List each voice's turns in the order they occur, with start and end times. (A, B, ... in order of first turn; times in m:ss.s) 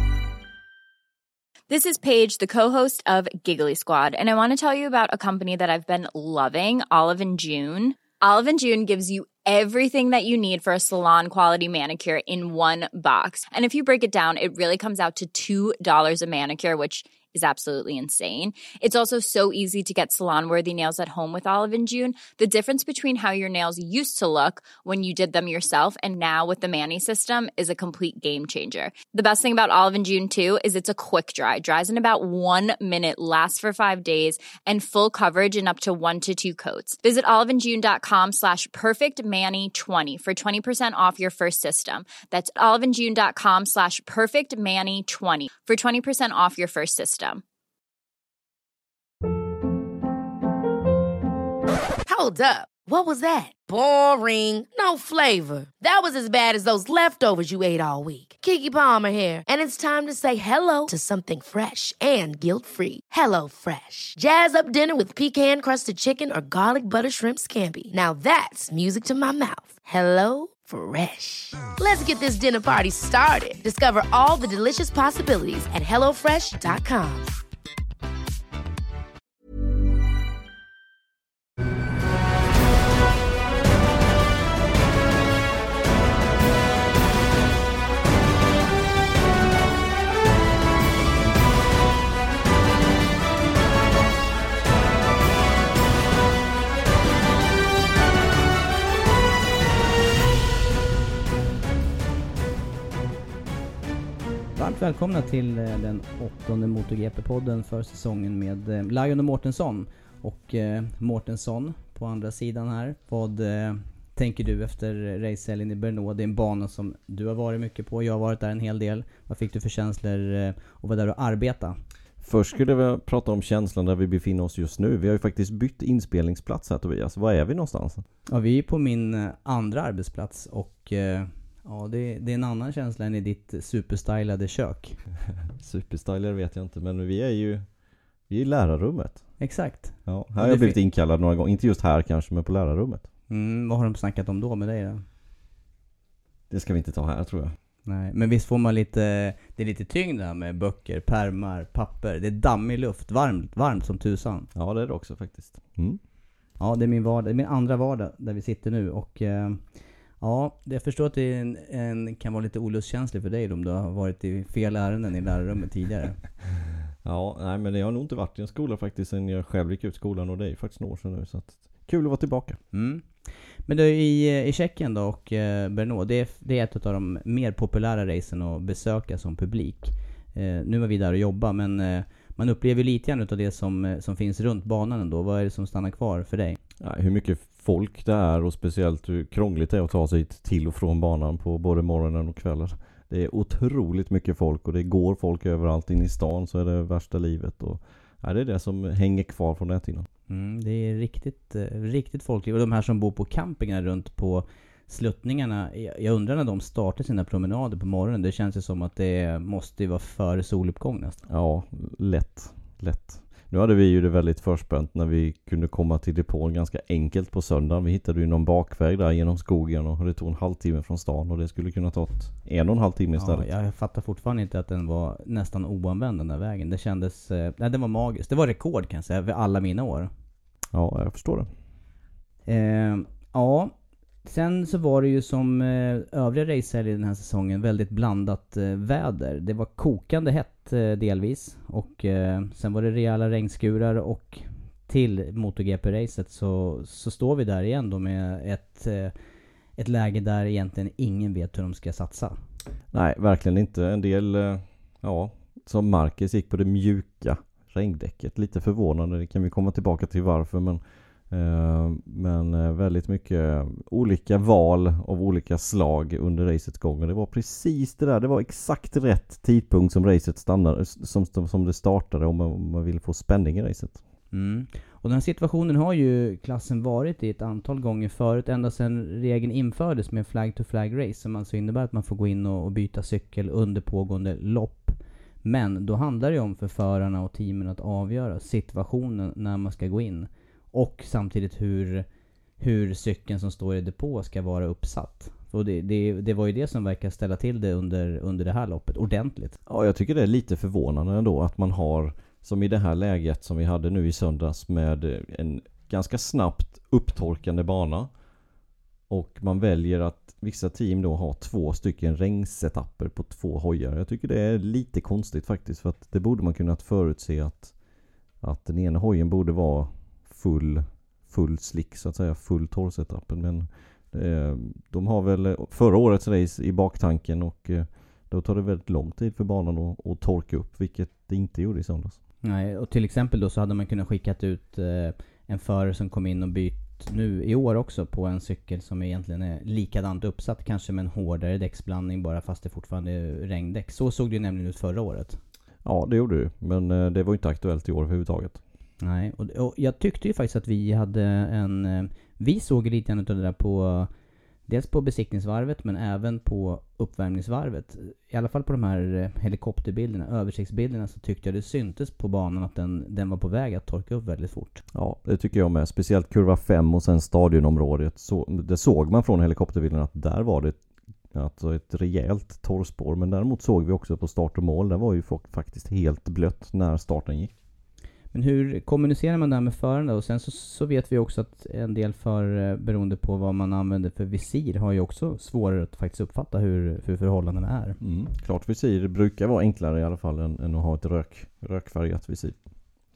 0:01.7-0:47.4 A
0:52.0-1:17.3 B
1:44.6-2:01.8 C
2:02.2-2:08.0 D
2:08.3-2:15.0 C
2:15.6-2:17.6 D
2:18.3-2:19.2 D
2:19.4-2:20.8 C
2:20.1-2:23.1 D
2:23.3-2:25.0 C
2:26.5-2:27.6 D
2:27.9-2:34.5 C
2:34.6-2:36.0 D
2:36.6-2:39.6 C
2:40.2-2:46.2 C
2:47.0-2:52.6 D
2:52.7-3:06.6 C
3:06.8-3:20.1 D
3:20.3-3:31.2 C
3:31.3-3:43.5 D
3:43.2-3:50.1 C
3:50.7-3:51.5 D
3:52.5-3:53.7 C
3:54.2-4:09.1 C
4:09.8-4:12.4 C
4:12.9-4:34.0 D
4:34.3-4:52.1 C
4:52.6-4:59.6 C
4:59.7-5:08.1 D
5:09.1-5:17.7 D
5:18.4-5:32.2 D
5:32.4-5:45.4 C
5:45.8-5:48.6 D
5:49.0-5:54.1 C
5:54.7-6:04.8 C
6:04.9-6:10.8 D
6:11.3-6:17.5 D
6:18.3-6:28.0 C
6:28.0-6:32.6 D